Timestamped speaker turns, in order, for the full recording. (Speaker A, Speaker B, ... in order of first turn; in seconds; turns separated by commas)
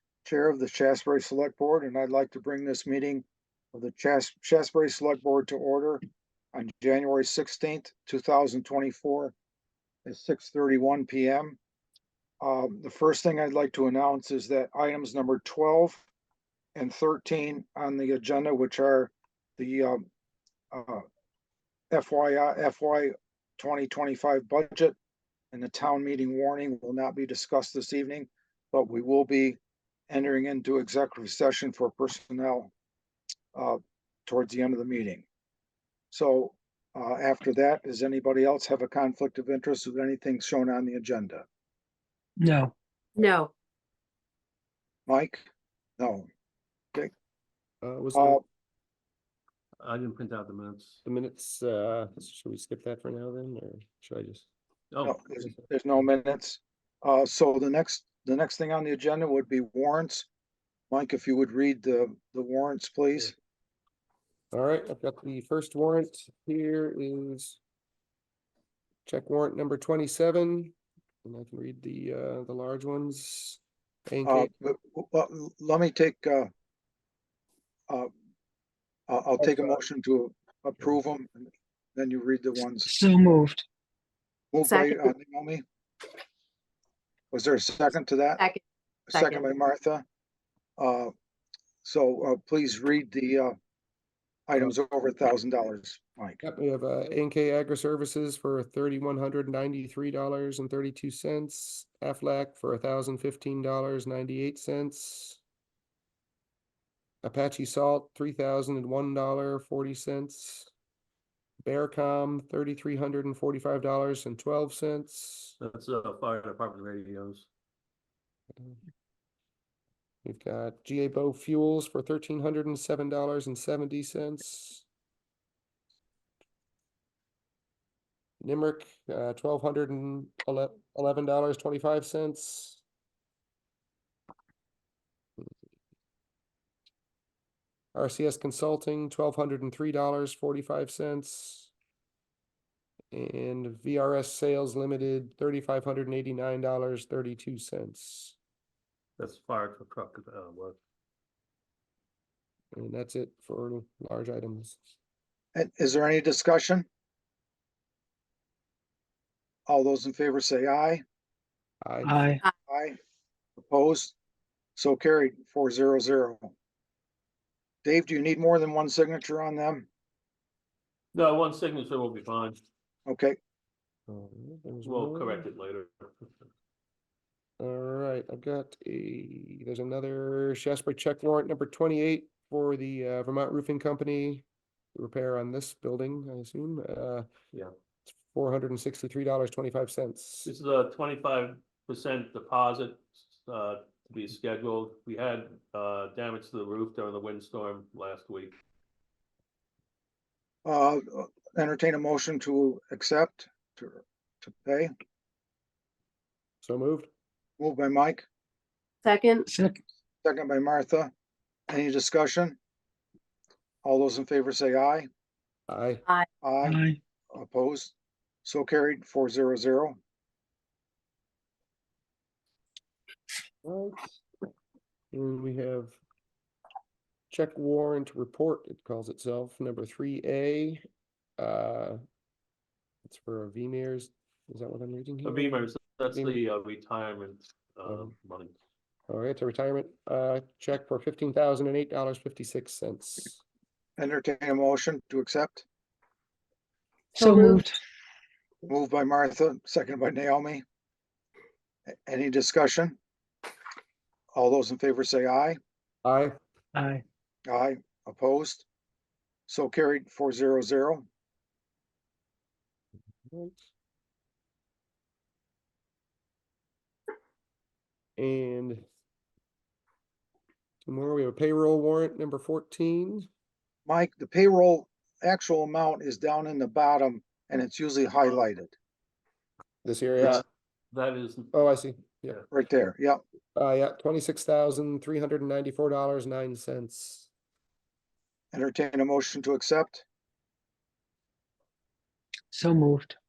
Speaker A: 0.2-6.0, Speaker A: 6.5-9.3, Speaker A: 10.1-11.6, Speaker A: 12.4-16.1, Speaker A: 16.8-20.0, Speaker A: 20.7-21.0, Speaker A: 21.9-25.0, Speaker A: 25.5-29.6, Speaker A: 30.1-32.7, Speaker A: 33.5-35.2, Speaker A: 36.1-41.5, Speaker B: 42.4-42.7, Speaker C: 43.2-43.5, Speaker A: 45.1-45.5, Speaker A: 46.0-46.3, Speaker D: 47.8-48.4, Speaker A: 48.2-48.4, Speaker E: 49.8-51.0, Speaker D: 51.0-54.5, Speaker E: 54.9-55.2, Speaker A: 55.0-60.3, Speaker A: 60.9-63.4, Speaker D: 64.5-67.6, Speaker D: 69.1-74.5, Speaker A: 74.2-76.5, Speaker A: 79.1-82.9, Speaker B: 82.9-83.7, Speaker A: 84.5-85.6, Speaker C: 84.6-85.0, Speaker A: 87.3-88.5, Speaker C: 88.4-89.4, Speaker A: 89.1-90.0, Speaker A: 90.8-91.1, Speaker A: 91.8-93.5, Speaker A: 94.5-96.4, Speaker D: 96.4-105.4, Speaker D: 107.2-110.7, Speaker D: 111.6-115.6, Speaker E: 115.6-117.5, Speaker D: 120.2-124.8, Speaker D: 128.4-132.8, Speaker D: 137.9-141.7, Speaker D: 143.1-148.4, Speaker E: 149.2-150.8, Speaker D: 152.7-154.8, Speaker A: 155.6-156.9, Speaker A: 159.7-161.0, Speaker D: 161.8-162.3, Speaker B: 162.0-162.4, Speaker A: 162.7-163.0, Speaker A: 163.6-164.2, Speaker A: 164.8-166.5, Speaker A: 167.8-169.9, Speaker E: 171.1-172.6, Speaker A: 173.1-173.4, Speaker D: 174.1-175.5, Speaker E: 174.8-176.5, Speaker D: 177.6-187.3, Speaker D: 188.1-190.5, Speaker E: 190.4-198.6, Speaker A: 200.7-204.9, Speaker D: 206.6-207.1, Speaker A: 207.6-208.3, Speaker C: 209.1-209.5, Speaker B: 209.5-209.8, Speaker A: 210.2-211.1, Speaker A: 211.7-212.6, Speaker A: 213.8-215.1, Speaker D: 215.7-216.0, Speaker A: 216.4-217.9, Speaker B: 216.6-217.0, Speaker A: 218.4-220.0, Speaker D: 223.6-224.2, Speaker D: 225.1-226.0, Speaker D: 227.3-230.8, Speaker D: 231.4-232.0, Speaker D: 233.1-236.4, Speaker E: 235.2-238.6, Speaker D: 237.9-238.1, Speaker D: 239.1-243.4, Speaker A: 244.0-245.7, Speaker B: 247.2-247.8, Speaker C: 247.2-247.7, Speaker A: 248.7-250.6, Speaker A: 252.1-253.0, Speaker A: 254.3-255.6, Speaker D: 256.0-256.4, Speaker B: 256.7-257.0, Speaker A: 257.5-258.7, Speaker A: 259.5-261.1, Speaker D: 263.3-263.6, Speaker D: 268.2-268.9, Speaker D: 270.9-273.3, Speaker A: 273.9-278.8, Speaker D: 279.8-280.4, Speaker E: 280.2-281.5, Speaker D: 281.5-282.4, Speaker A: 282.5-283.2, Speaker D: 283.6-287.3, Speaker A: 288.5-290.1, Speaker B: 292.5-293.2